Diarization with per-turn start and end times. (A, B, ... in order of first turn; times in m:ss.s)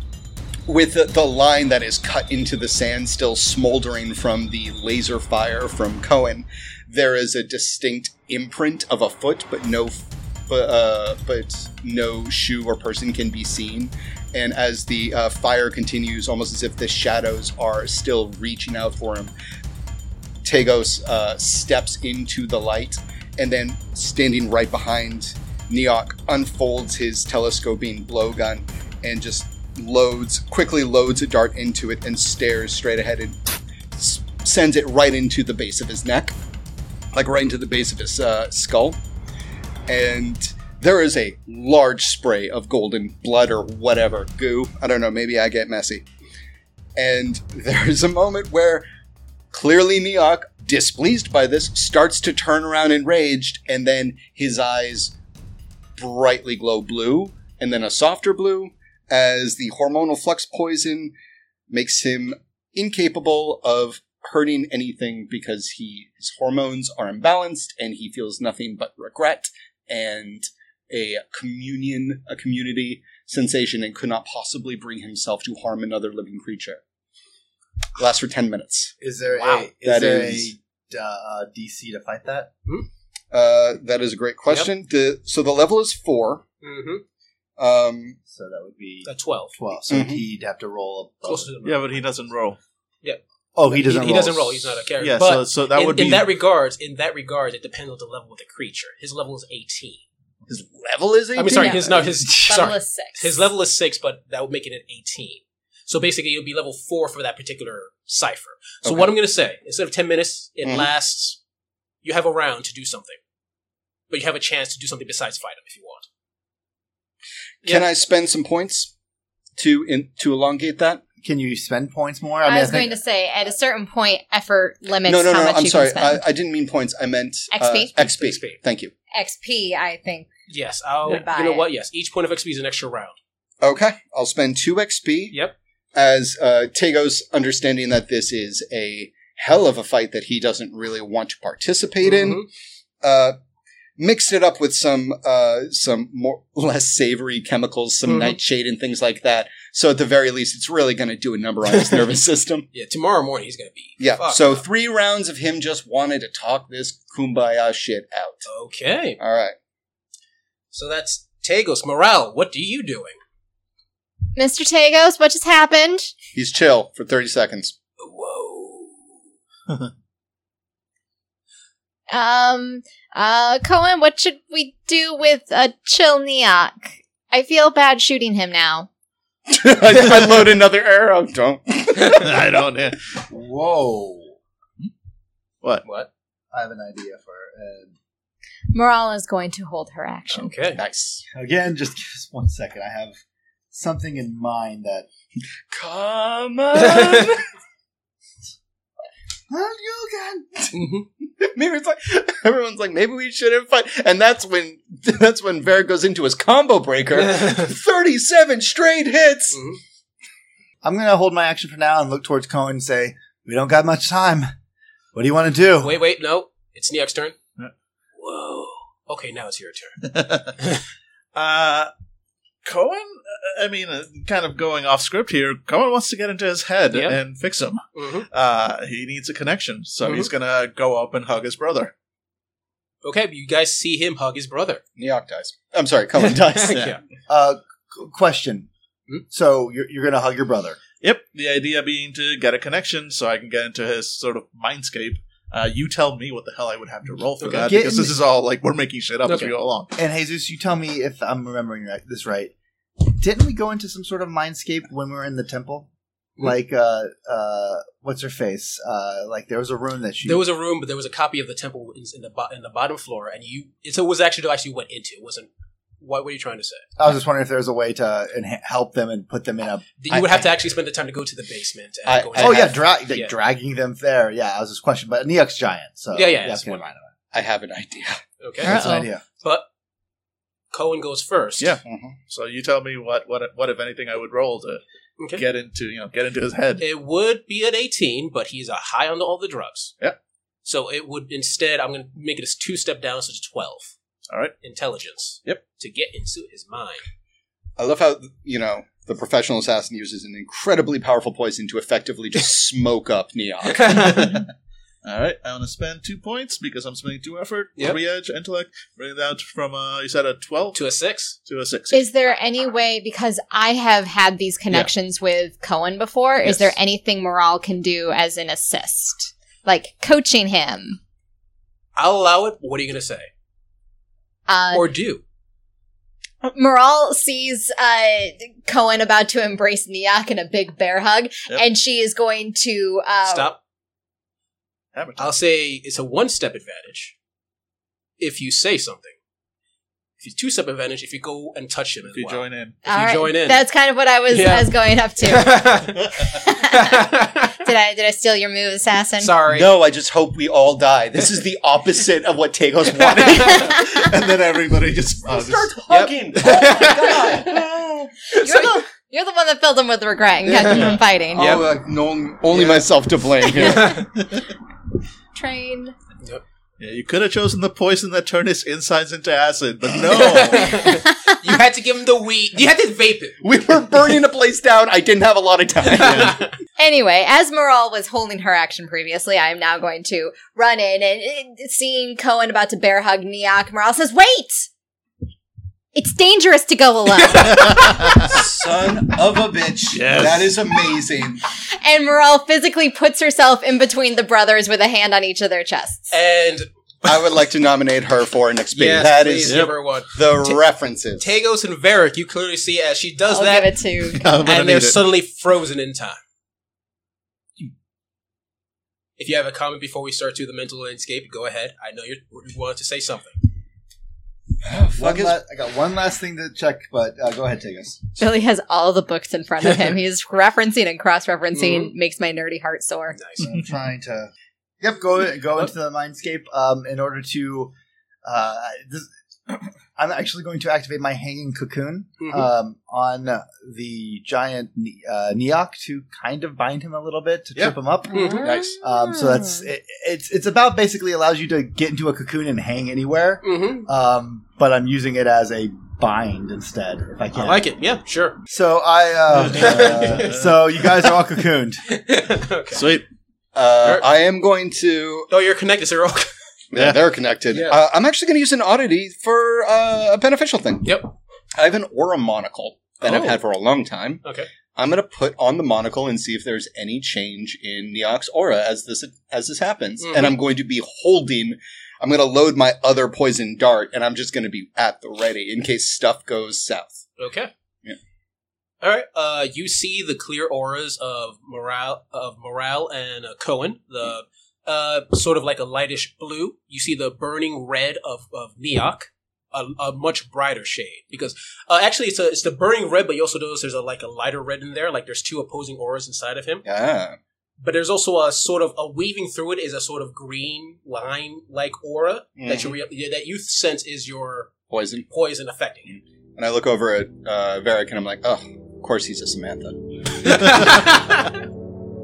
0:00.7-0:19.3 A
0:20.4-0:33.4 A
0:33.9-0:36.3 A
0:37.1-0:39.0 A
0:39.9-0:46.1 A
0:47.0-0:48.9 A
0:49.5-0:55.1 A
0:56.0-1:01.1 A
1:01.7-1:16.8 A
1:18.0-1:18.9 A
1:19.0-1:22.5 B
1:19.4-1:19.7 C
1:19.8-1:20.5 A
1:23.3-1:26.4 A
1:26.6-1:27.0 C
1:27.6-1:28.2 A
1:28.3-1:31.5 B
1:29.0-1:29.6 C
1:29.9-1:30.2 A
1:31.2-1:32.0 C
1:31.6-1:32.6 D
1:33.0-1:40.0 C
1:33.5-1:34.6 B
1:35.0-1:36.3 D
1:40.5-1:42.1 A
1:41.3-1:51.4 C
1:41.5-1:43.3 E
1:48.8-1:49.1 A
1:50.6-1:50.9 A
1:52.0-1:53.2 C
1:54.1-1:56.1 C
1:57.6-1:58.9 A
1:59.6-2:01.0 A
2:01.2-2:03.0 B
2:02.4-2:06.2 E
2:05.0-2:08.9 A
2:07.5-2:07.9 E
2:08.0-2:08.6 C
2:09.1-2:10.3 E
2:10.5-2:13.2 C
2:11.0-2:11.6 E
2:13.6-2:15.4 A
2:15.9-2:22.4 A
2:22.0-2:22.5 C
2:23.0-2:23.4 A
2:24.0-2:32.7 A
2:28.1-2:28.4 C
2:31.7-2:32.1 C
2:32.7-2:34.6 C
2:34.0-2:38.5 A
2:38.5-2:39.2 C
2:39.2-2:39.5 A
2:40.7-2:43.2 C
2:44.3-2:46.1 E
2:46.3-2:47.8 A
2:48.0-2:49.0 C
2:52.1-2:58.9 E
2:59.5-3:02.6 A
3:02.1-3:03.1 D
3:03.3-3:04.4 B
3:05.8-3:06.1 C
3:06.5-3:07.9 B
3:08.7-3:10.5 E
3:10.3-3:10.8 C
3:10.8-3:11.2 A
3:11.3-3:13.2 B
3:13.7-3:15.1 B
3:15.7-3:17.4 A
3:19.5-3:20.7 B
3:20.7-3:21.0 C
3:21.2-3:29.6 A
3:27.2-3:27.7 C
3:29.5-3:29.8 C
3:30.8-3:34.5 B
3:35.1-3:36.0 B
3:35.8-3:37.4 C
3:38.2-3:40.0 C
3:40.0-3:40.6 D
3:41.3-3:41.9 D
3:42.6-3:51.9 D
3:46.9-3:47.2 C
3:47.9-3:48.3 C
3:50.0-3:50.3 C
3:53.0-3:54.8 C
3:55.0-3:56.9 A
3:56.2-3:57.0 C
3:57.3-3:58.7 B
3:59.3-4:00.8 B
4:01.0-4:09.9 D
4:07.4-4:07.7 C
4:07.5-4:08.2 B
4:09.2-4:09.5 C
4:10.0-4:20.4 B
4:20.2-4:25.5 C
4:26.0-4:26.8 C
4:27.0-4:29.9 B
4:30.0-4:33.3 C
4:30.1-4:30.5 A
4:32.0-4:32.8 A
4:32.4-4:37.1 B
4:36.1-4:36.8 C
4:37.3-4:38.2 A
4:38.4-4:38.8 C
4:38.6-4:39.1 E
4:38.6-4:39.2 B
4:40.7-4:41.8 C
4:41.6-4:44.8 D
4:41.8-4:42.2 A
4:45.2-4:45.4 C
4:45.4-4:46.8 D
4:46.8-4:49.9 C
4:50.6-4:53.9 C
4:54.3-4:54.5 D
4:54.6-4:57.0 C
4:57.8-5:04.3 A
5:03.8-5:04.4 C
5:04.0-5:04.4 D
5:05.0-5:10.8 D
5:10.7-5:11.4 C
5:11.4-5:12.0 D
5:11.9-5:21.0 E
5:22.0-5:23.3 C
5:24.5-5:24.9 E
5:24.7-5:25.2 C
5:26.4-5:33.5 E
5:33.3-5:33.6 C
5:34.9-5:35.3 D
5:35.2-5:37.1 C
5:38.2-5:39.2 C
5:40.2-5:43.6 C
5:42.1-5:42.8 D
5:42.8-5:45.8 E
5:44.3-5:47.6 C
5:46.3-5:47.1 E
5:47.6-5:49.4 E
5:49.2-5:49.7 C
5:49.5-5:54.0 A
5:53.0-5:53.6 C
5:53.5-5:54.1 E
5:53.6-5:55.8 D
5:55.2-5:58.1 A
5:55.9-5:57.5 C
5:56.8-5:57.6 E
5:58.3-6:01.6 E
5:58.3-5:58.8 C
6:00.5-6:01.6 C
6:00.6-6:04.0 A
6:02.6-6:02.8 C
6:03.5-6:04.0 E
6:03.5-6:04.4 D
6:03.5-6:04.1 C
6:05.3-6:05.9 E
6:06.8-6:10.9 D
6:10.1-6:13.4 C
6:10.6-6:11.0 E
6:13.4-6:16.4 A
6:15.9-6:16.4 D
6:16.0-6:16.5 C
6:16.8-6:24.7 E
6:25.9-6:28.4 E
6:27.3-6:28.3 D
6:28.2-6:31.4 A
6:29.9-6:30.6 D
6:31.7-6:36.1 E
6:36.1-6:37.2 C
6:37.0-6:41.3 A
6:38.7-6:40.6 C
6:39.4-6:39.7 D
6:41.2-6:43.8 C
6:43.2-6:44.2 E
6:44.1-6:45.0 D
6:44.4-6:46.2 C
6:49.2-6:53.4 C
6:54.6-6:55.4 A
6:55.0-6:58.1 B
6:58.2-7:03.2 E
7:01.5-7:01.9 C
7:03.1-7:03.4 C
7:03.4-7:07.7 B
7:08.2-7:27.6 B
7:12.2-7:12.5 C
7:18.1-7:18.6 C
7:18.1-7:19.3 E
7:18.4-7:18.7 D
7:23.4-7:23.8 C
7:27.3-7:28.4 C
7:28.5-7:31.8 B
7:29.3-7:30.6 D
7:29.5-7:31.0 C
7:31.9-7:32.9 C
7:32.7-7:33.0 D
7:33.5-7:35.3 A
7:33.8-7:34.1 C
7:35.3-7:36.3 C
7:36.7-7:41.0 A
7:36.7-7:37.0 D
7:37.5-7:37.8 C
7:40.8-7:41.1 C
7:41.5-7:44.2 A
7:43.0-7:43.4 C
7:44.7-7:57.0 A
7:50.0-7:50.4 C
7:57.2-7:57.5 C
7:58.8-8:16.6 C
8:16.6-8:17.2 A
8:17.6-8:24.5 C
8:22.4-8:22.8 A
8:24.7-8:25.0 A
8:25.1-8:25.9 C
8:26.4-8:30.9 A
8:30.2-8:31.3 C